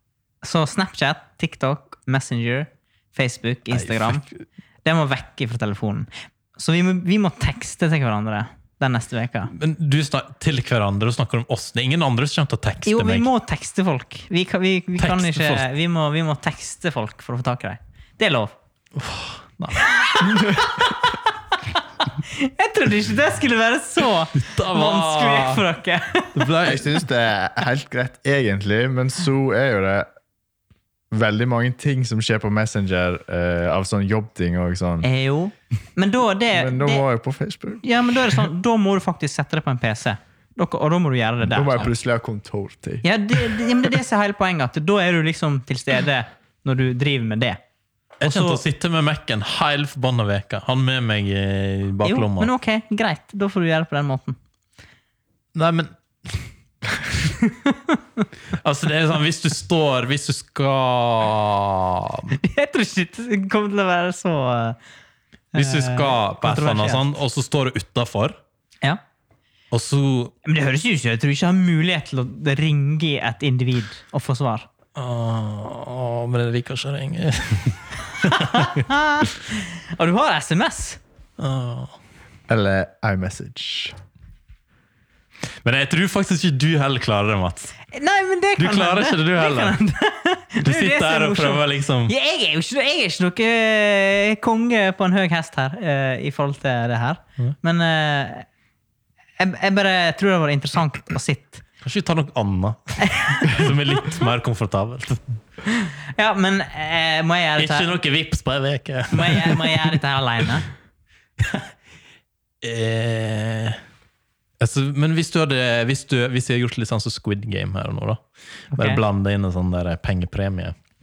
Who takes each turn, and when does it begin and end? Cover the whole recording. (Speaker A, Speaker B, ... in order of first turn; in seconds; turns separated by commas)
Speaker A: 0.4-4.2, Speaker B: 3.7-4.2, Speaker A: 4.8-9.5, Speaker B: 9.5-13.3, Speaker A: 12.8-18.5, Speaker B: 15.0-15.7, Speaker B: 18.9-20.6, Speaker A: 19.8-26.5, Speaker B: 24.3-25.6, Speaker B: 26.3-26.9, Speaker C: 26.6-30.1, Speaker C: 31.1-35.1, Speaker A: 35.0-37.0, Speaker C: 36.5-37.8, Speaker A: 37.8-41.9, Speaker C: 41.4-43.6, Speaker A: 43.0-47.6, Speaker B: 48.2-52.5, Speaker A: 48.2-48.6, Speaker A: 52.0-54.4, Speaker B: 55.5-56.5, Speaker A: 57.4-58.0, Speaker B: 58.5-62.4, Speaker A: 62.4-64.8, Speaker A: 65.5-67.1, Speaker B: 65.5-68.4, Speaker B: 69.7-70.3, Speaker A: 70.4-74.7, Speaker B: 75.0-78.8, Speaker A: 78.2-81.0, Speaker B: 81.4-82.0, Speaker C: 82.5-83.9, Speaker B: 85.6-87.8, Speaker A: 87.9-98.5, Speaker B: 88.6-89.8, Speaker B: 90.6-92.1, Speaker A: 99.4-101.6, Speaker B: 101.8-105.4, Speaker A: 103.0-103.7, Speaker A: 105.7-108.0, Speaker B: 107.6-109.9, Speaker A: 109.1-110.7, Speaker B: 111.4-111.7, Speaker B: 112.6-113.8, Speaker B: 114.6-120.7, Speaker A: 118.7-119.0